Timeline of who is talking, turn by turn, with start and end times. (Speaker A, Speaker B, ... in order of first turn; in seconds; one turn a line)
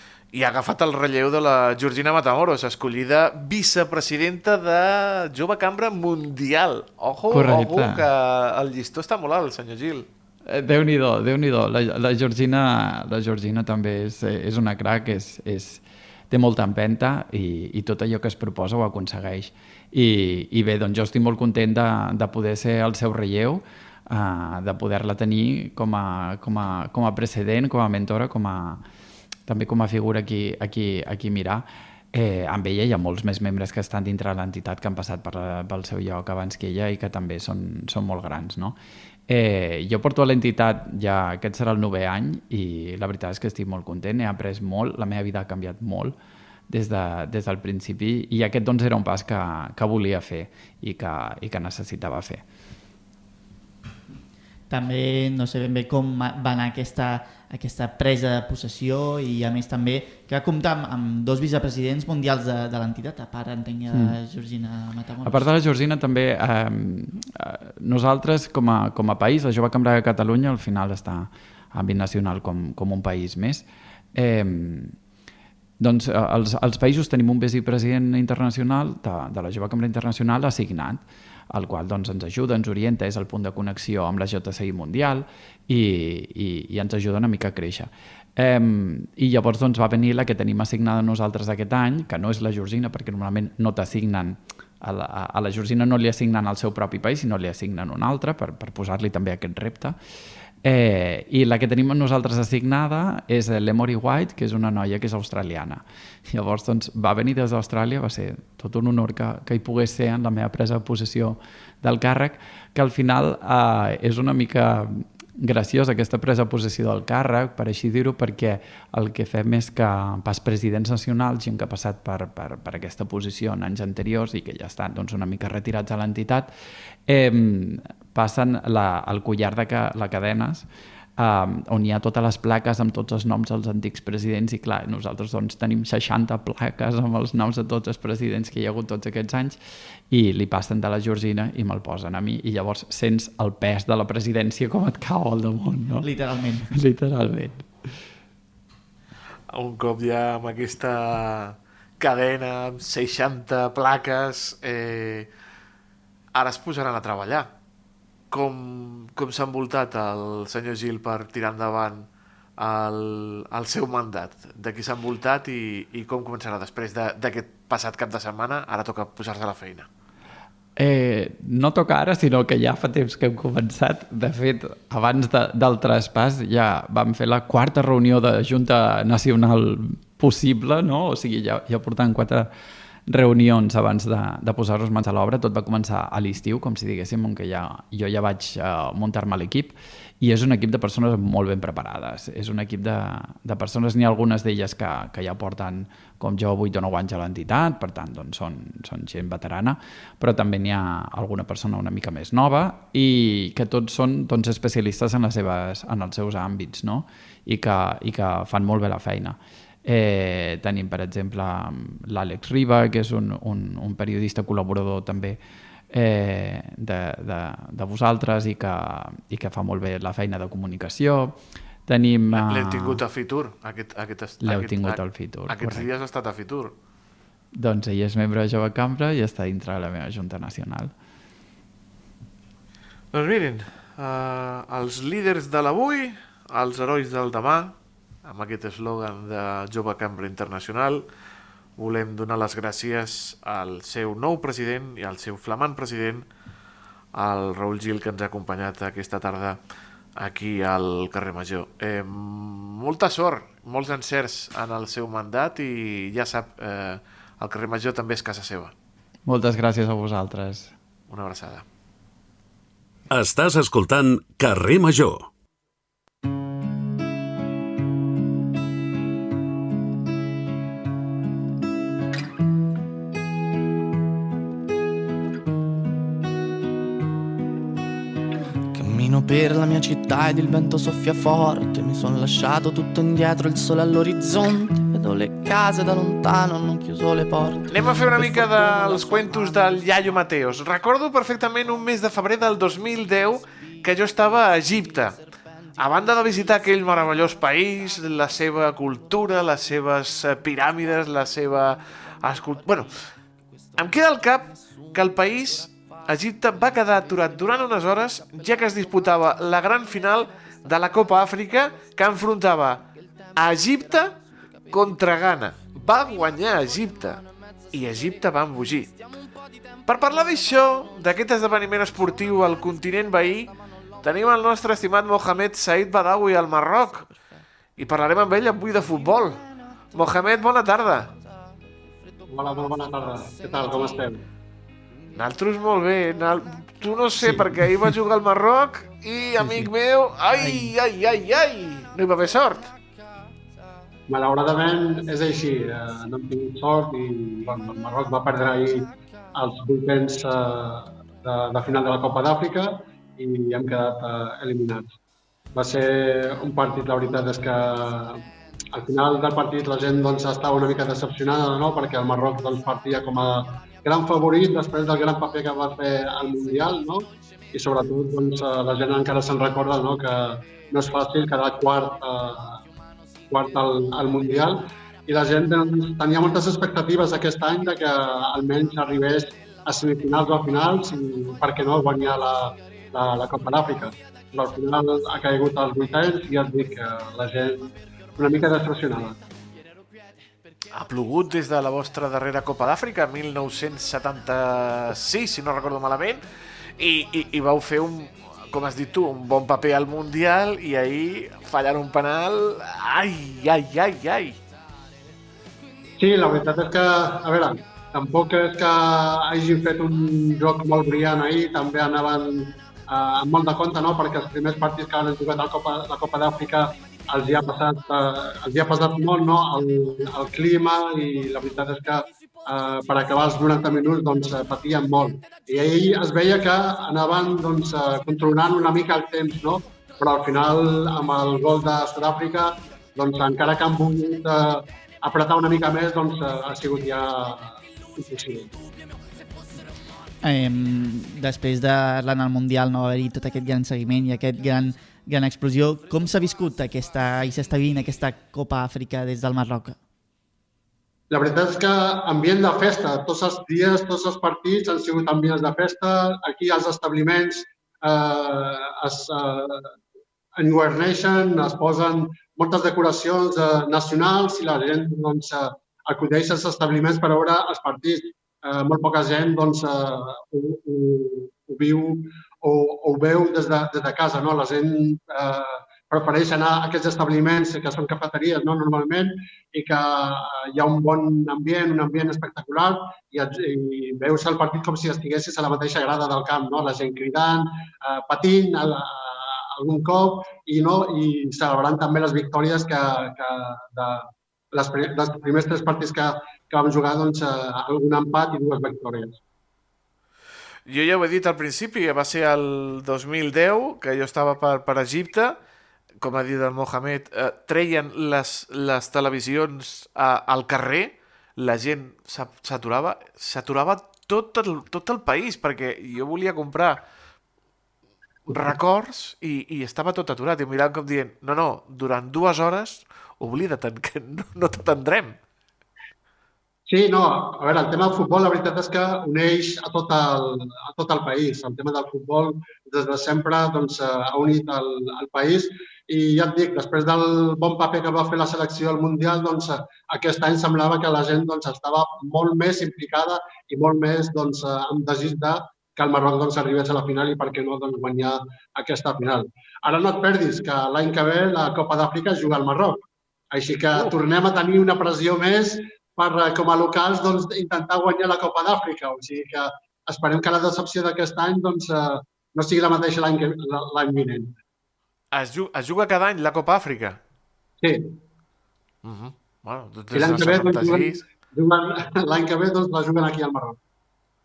Speaker A: 0.3-10.1
Speaker B: 7.3-8.1
Speaker B: 10.5-28.8
Speaker B: 29.5-38.8
Speaker B: 39.3-46.2
Speaker B: 46.7-52.4
Speaker C: 54.7-65.5
Speaker B: 63.9-64.2
Speaker B: 65.2-75.0
Speaker B: 75.8-100.0
Speaker B: 100.6-126.5
Speaker B: 127.1-130.7
Speaker B: 131.2-139.6
Speaker B: 140.1-146.1
Speaker C: 146.0-146.7
Speaker B: 146.7-147.9
Speaker A: 149.5-155.3
Speaker A: 156.3-157.5
Speaker A: 158.3-162.1
Speaker A: 162.6-169.9
Speaker B: 170.8-182.5
Speaker B: 183.1-215.4
Speaker B: 215.9-223.0
Speaker A: 222.3-226.7
Speaker B: 224.4-225.9
Speaker B: 227.5-230.9
Speaker A: 233.1-241.0
Speaker A: 241.8-246.3
Speaker A: 247.1-249.6
Speaker A: 250.2-258.7
Speaker B: 259.3-260.7
Speaker A: 261.1-261.6
Speaker D: 263.1-265.3
Speaker E: 278.7-289.8
Speaker A: 287.7-295.2
Speaker A: 295.8-302.9
Speaker A: 303.8-314.2
Speaker A: 314.7-318.9
Speaker A: 319.9-327.1
Speaker A: 327.8-329.4
Speaker A: 329.9-331.1
Speaker F: 332.3-334.2
Speaker A: 335.1-342.7
Speaker F: 344.1-354.9
Speaker F: 355.6-358.2
Speaker F: 358.7-372.6
Speaker F: 373.3-389.2
Speaker A: 390.7-396.2
Speaker A: 396.8-404.4
Speaker F: 406.0-438.5
Speaker C: 440.2-449.8
Speaker F: 451.1-459.7
Speaker F: 460.4-499.2
Speaker A: 500.7-505.4
Speaker A: 506.0-516.8
Speaker A: 518.3-525.2
Speaker F: 518.3-518.6
Speaker F: 526.7-552.8
Speaker F: 553.3-564.4
Speaker A: 565.1-567.0
Speaker F: 567.6-568.0
Speaker A: 568.8-571.0
Speaker F: 569.9-573.6